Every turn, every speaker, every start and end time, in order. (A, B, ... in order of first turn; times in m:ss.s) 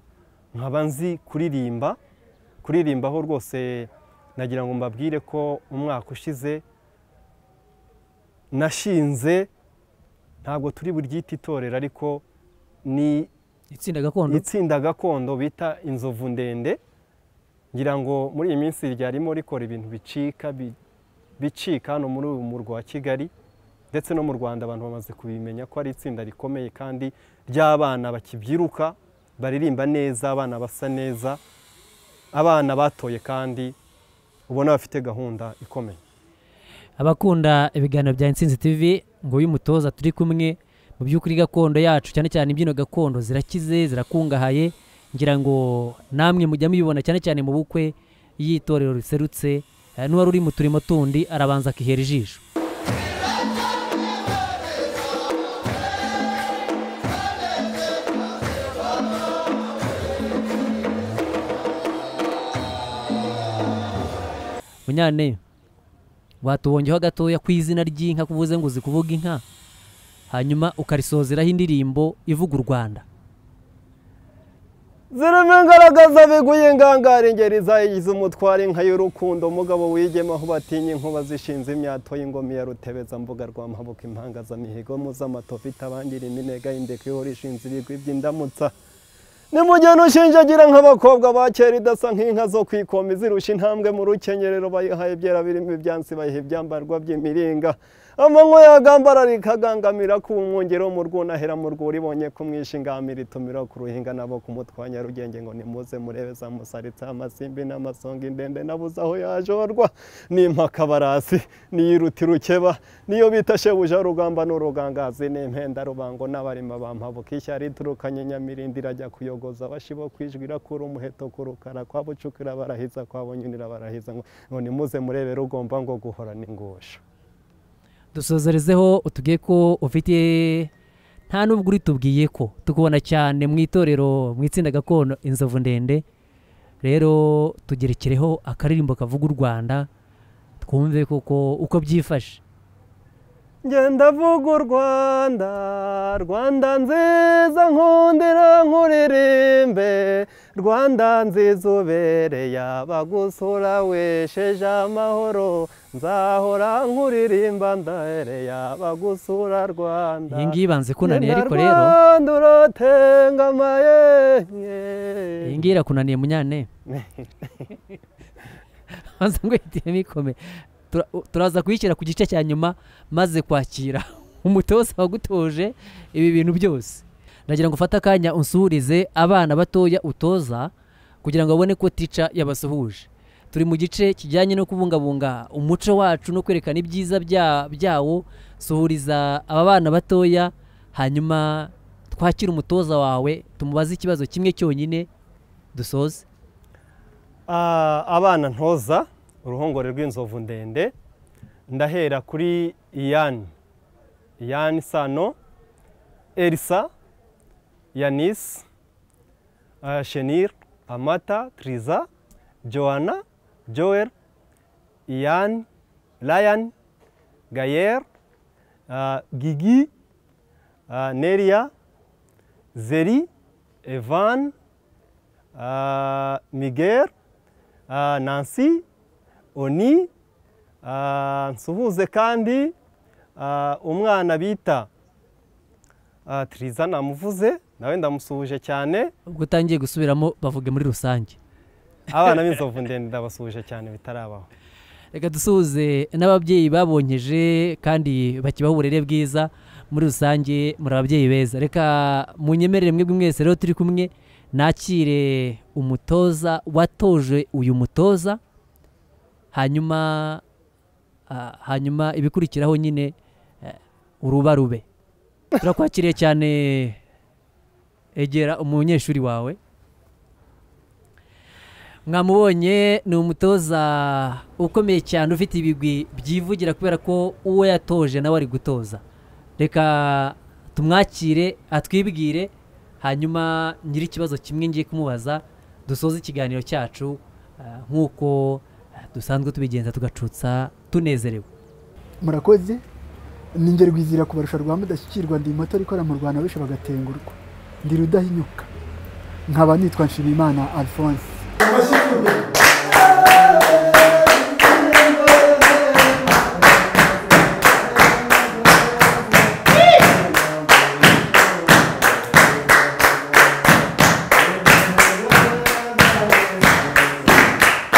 0:00.5-0:02.0 A
0:02.6-0:06.6 A
0:08.5-0:09.5 A
0:10.4-0:12.2 A
0:12.8-0:13.3 A
0:13.7-0:14.5 B
0:14.3-0:16.8 A
0:17.7-0:20.8 A
0:21.4-0:23.3 A
0:23.9-0:31.4 A
0:32.3-0:33.8 A
0:34.5-0:36.0 A
0:37.0-0:52.4 B
1:04.9-1:05.4 B
1:06.4-1:09.4 B
1:10.3-1:13.0 B
1:15.1-1:28.7 A
1:29.5-2:07.0 A
2:08.1-2:10.7 B
2:11.3-2:16.0 B
2:16.8-2:19.9 B
2:20.6-2:22.4 B
2:23.6-2:45.7 A
2:40.3-2:42.0 B
2:45.4-2:46.7 B
2:46.9-2:47.7 A
2:48.9-3:00.7 B
3:01.2-3:15.1 B
3:15.7-3:16.2 B
3:17.5-3:20.9 A
3:21.7-3:23.5 A
3:24.4-3:25.4 A
3:26.4-3:26.9 A
3:27.9-3:28.6 A
3:29.8-3:32.1 A
3:32.6-3:34.1 A
3:35.1-3:35.7 A
3:36.2-3:36.7 A
3:37.5-3:38.0 A
3:38.9-3:39.9 A
3:40.9-3:41.7 A
3:42.7-3:43.3 A
3:43.8-3:44.5 A
3:45.5-3:47.1 A
3:47.9-3:48.8 A
3:49.5-3:50.1 A
3:50.8-3:52.7 A
3:53.4-3:54.9 A
3:56.2-3:59.1 A
3:59.2-4:01.4 B
4:02.1-4:04.5 A
4:05.1-4:18.4 B
4:19.5-4:20.4 B
4:21.3-4:24.8 B
4:25.6-4:27.0 B
4:28.1-4:29.6 B
4:32.0-4:39.0 B
4:39.6-4:51.5 B
4:52.2-4:52.8 C
4:53.6-4:58.7 C
4:59.5-5:01.5 C
5:01.6-5:17.6 A